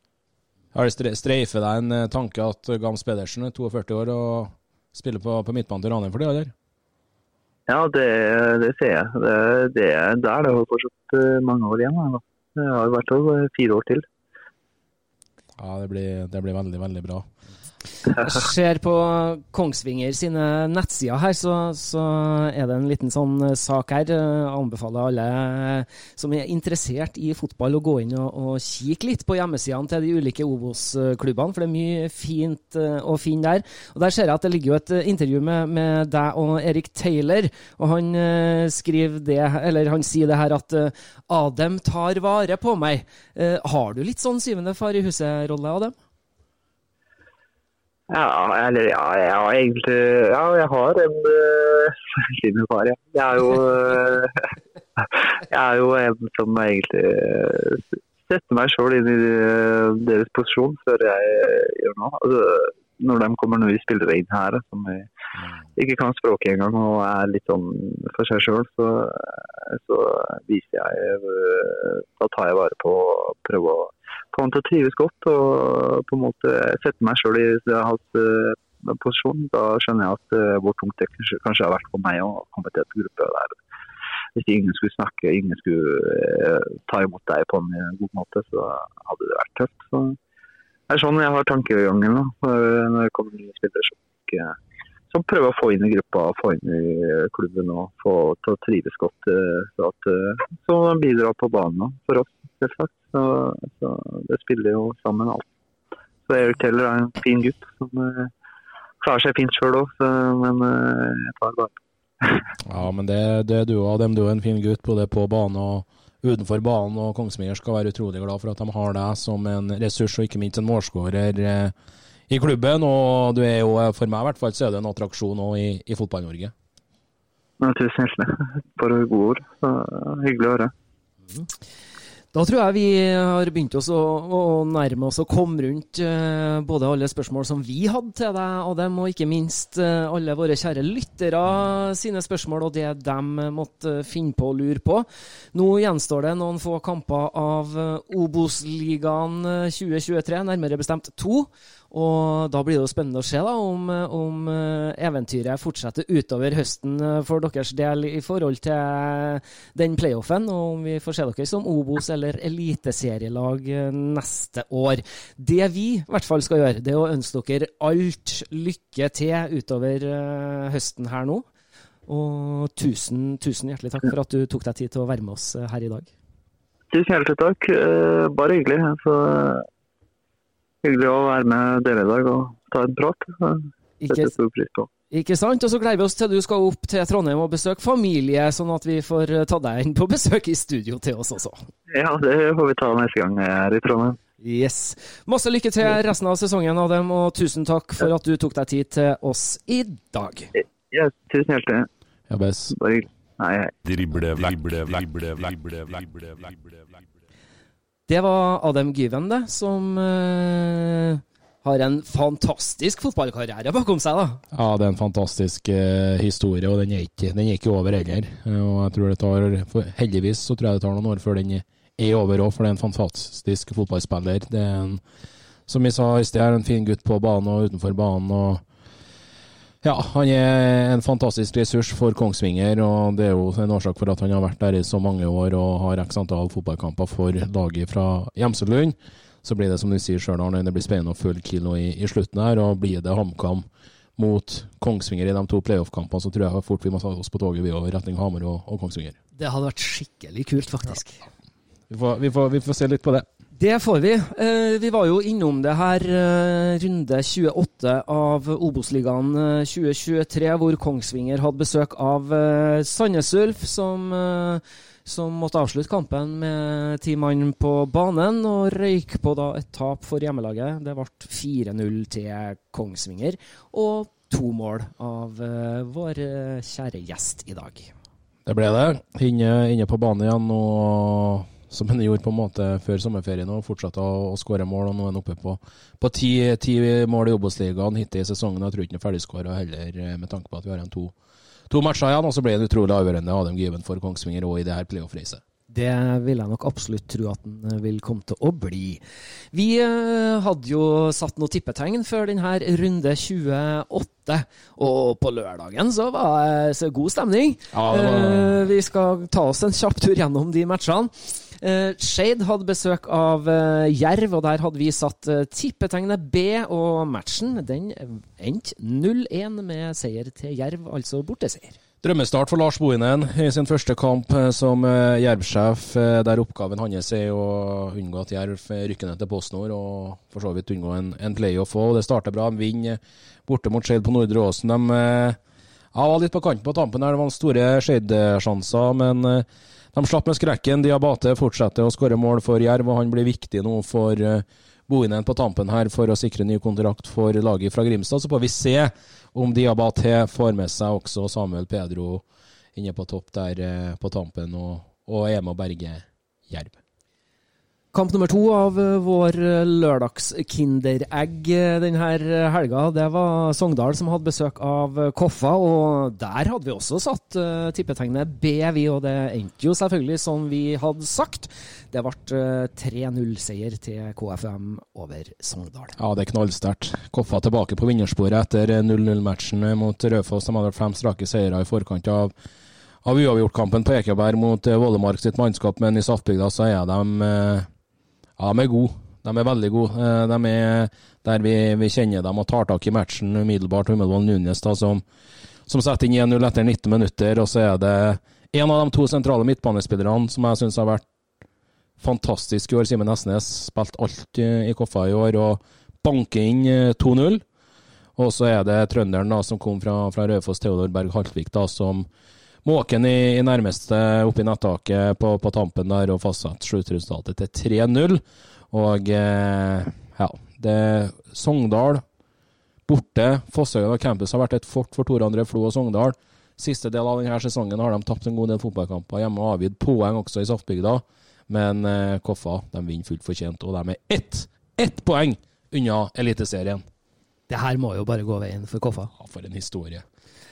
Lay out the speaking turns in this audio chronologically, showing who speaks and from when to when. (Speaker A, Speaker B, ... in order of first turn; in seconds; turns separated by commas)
Speaker A: 0.7-6.5, Speaker B: 7.7-14.1, Speaker A: 15.6-17.3, Speaker C: 18.2-46.0, Speaker B: 48.1-54.4, Speaker B: 55.0-65.1, Speaker B: 65.8-83.6, Speaker B: 84.4-90.2, Speaker B: 90.9-94.5, Speaker B: 95.1-105.5, Speaker B: 106.3-108.3, Speaker B: 109.0-112.5, Speaker A: 112.7-121.7, Speaker A: 122.3-126.5, Speaker B: 127.6-130.7, Speaker C: 132.3-171.5, Speaker C: 172.1-176.1, Speaker B: 176.9-179.7, Speaker B: 180.8-184.9, Speaker C: 184.0-184.3, Speaker C: 185.1-191.7, Speaker B: 191.9-194.2, Speaker C: 194.4-200.5, Speaker B: 200.6-201.9, Speaker A: 202.3-202.8, Speaker B: 202.7-203.7, Speaker D: 203.8-207.0, Speaker C: 208.1-214.4, Speaker A: 214.5-225.0, Speaker A: 225.7-228.6, Speaker A: 229.8-243.7, Speaker A: 244.2-249.2, Speaker C: 249.4-251.2, Speaker A: 251.9-253.3, Speaker C: 253.6-277.9, Speaker A: 278.5-291.1, Speaker A: 291.7-295.4, Speaker C: 295.7-299.0, Speaker C: 299.5-321.8, Speaker A: 307.7-308.6, Speaker A: 322.0-335.4, Speaker A: 335.9-356.8, Speaker C: 357.9-376.0, Speaker A: 376.0-382.3, Speaker A: 383.0-387.7, Speaker A: 388.4-395.0, Speaker A: 395.7-401.1, Speaker A: 402.0-407.4, Speaker A: 408.2-412.1, Speaker A: 412.6-422.0, Speaker A: 422.9-436.9, Speaker C: 437.5-439.1, Speaker A: 439.2-440.0